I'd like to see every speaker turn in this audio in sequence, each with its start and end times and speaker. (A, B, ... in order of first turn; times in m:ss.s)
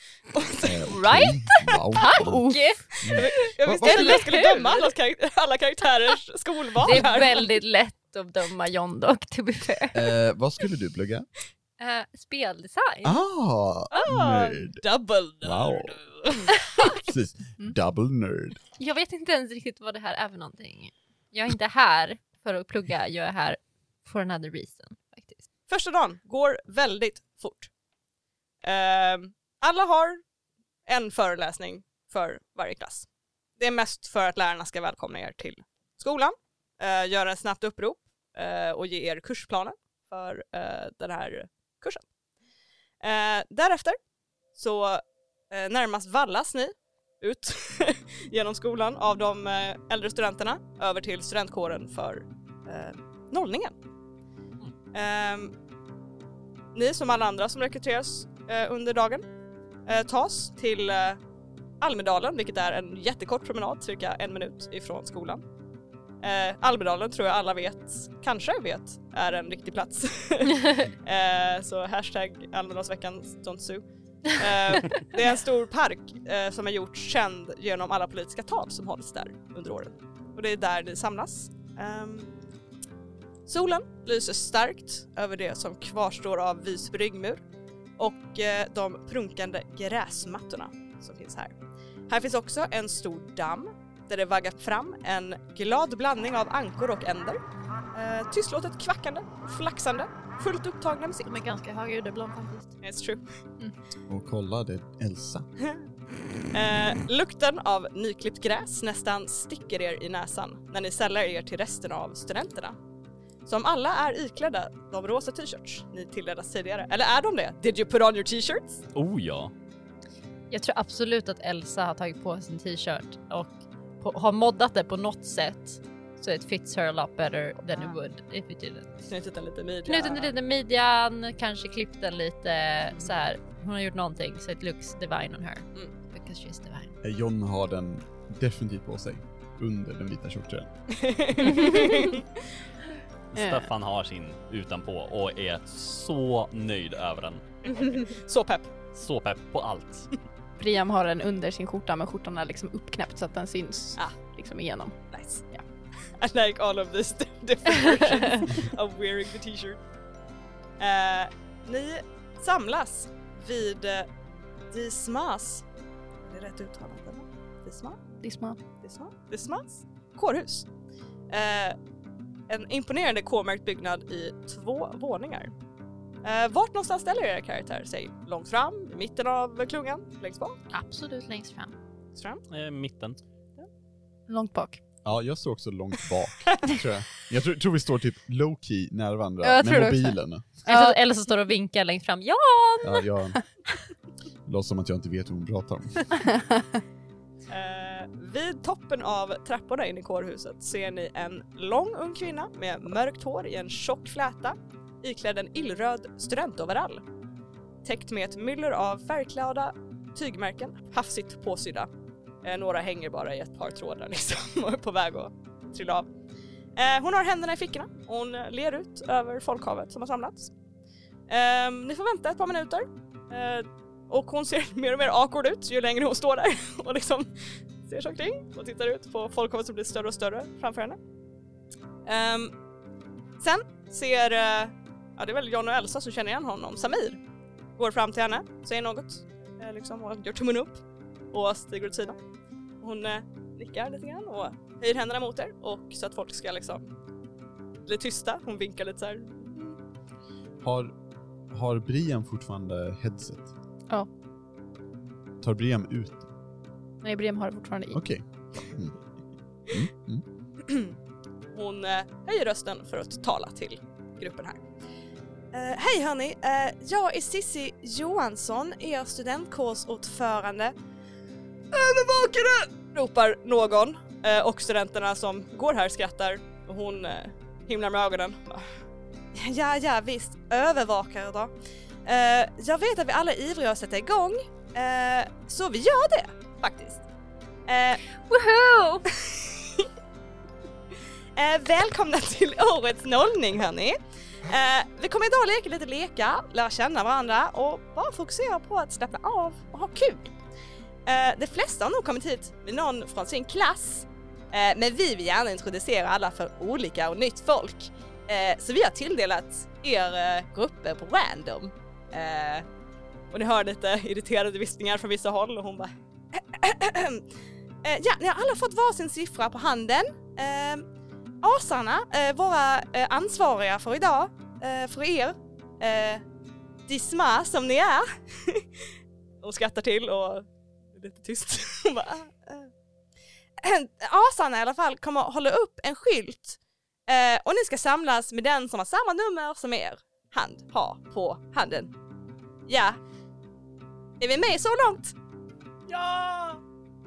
0:00.3-0:00.9 A
0:00.6-0:04.2 B
0:00.8-0:03.3 C
0:02.2-0:02.6 D
0:03.0-0:07.5 A
0:03.8-0:04.9 C
0:06.8-0:10.1 C
0:09.9-0:11.3 B
0:11.8-0:13.2 C
0:13.0-0:14.8 B
0:13.9-0:16.6 A
0:15.4-0:16.0 B
0:16.8-0:18.6 B
0:18.8-0:25.4 C
0:25.7-0:27.7 A
0:28.6-0:30.2 A
0:30.9-0:42.1 A
0:43.0-0:44.0 A
0:44.6-0:53.8 A
0:54.9-0:55.5 A
0:56.7-0:59.2 A
0:59.9-1:01.2 A
1:01.8-1:05.4 A
1:06.2-1:22.3 A
1:23.5-1:27.4 A
1:28.0-1:31.5 A
1:32.1-1:37.4 A
1:37.9-1:41.3 A
1:41.2-1:42.7 C
1:42.8-1:43.2 A
1:44.1-1:45.4 B
1:46.5-1:52.8 A
1:53.4-1:58.8 A
1:59.0-1:59.5 E
2:00.5-2:09.0 C
2:09.1-2:10.3 A
2:09.9-2:17.0 C
2:17.0-2:20.7 B
2:20.9-2:22.2 A
2:23.3-2:27.4 E
2:23.4-2:23.6 D
2:27.6-2:28.7 A
2:28.9-2:30.1 E
2:30.6-2:35.0 D
2:35.1-2:35.4 A
2:36.2-2:39.8 A
2:40.8-2:44.1 A
2:44.7-2:45.6 A
2:46.2-2:48.0 A
2:48.2-2:48.6 D
2:48.8-2:50.7 A
2:51.3-2:51.8 A
2:52.5-2:55.5 A
2:56.2-3:00.6 A
3:00.7-3:01.8 C
3:02.2-3:02.4 A
3:02.5-3:03.2 E
3:04.3-3:04.8 D
3:05.0-3:10.5 B
3:09.4-3:11.0 D
3:10.6-3:13.1 C
3:12.8-3:13.4 B
3:14.5-3:16.1 B
3:16.2-3:16.8 D
3:17.5-3:27.0 A
3:27.8-3:31.9 A
3:32.4-3:36.1 A
3:36.8-3:40.5 A
3:41.3-3:47.3 A
3:47.8-3:51.0 A
3:52.1-3:52.5 A
3:53.4-3:57.2 A
3:57.8-4:02.2 A
4:02.8-4:06.9 A
4:07.8-4:09.8 A
4:10.6-4:10.9 B
4:11.5-4:13.5 B
4:15.4-4:16.3 B
4:17.0-4:18.0 D
4:17.9-4:19.0 B
4:19.7-4:20.2 B
4:20.6-4:21.0 A
4:21.5-4:24.6 A
4:25.5-4:30.7 A
4:31.7-4:38.6 A
4:39.4-4:41.5 A
4:42.1-4:47.0 A
4:47.7-4:48.0 A
4:48.2-4:49.0 C
4:49.2-4:49.9 A
4:51.4-5:00.3 A
5:01.1-5:12.7 A
5:13.3-5:17.2 A
5:17.8-5:20.9 A
5:21.4-5:26.2 A
5:26.9-5:28.7 A
5:29.4-5:32.7 A
5:33.6-5:41.9 A
5:42.7-5:43.0 A
5:44.2-5:45.2 A
5:45.9-5:46.6 A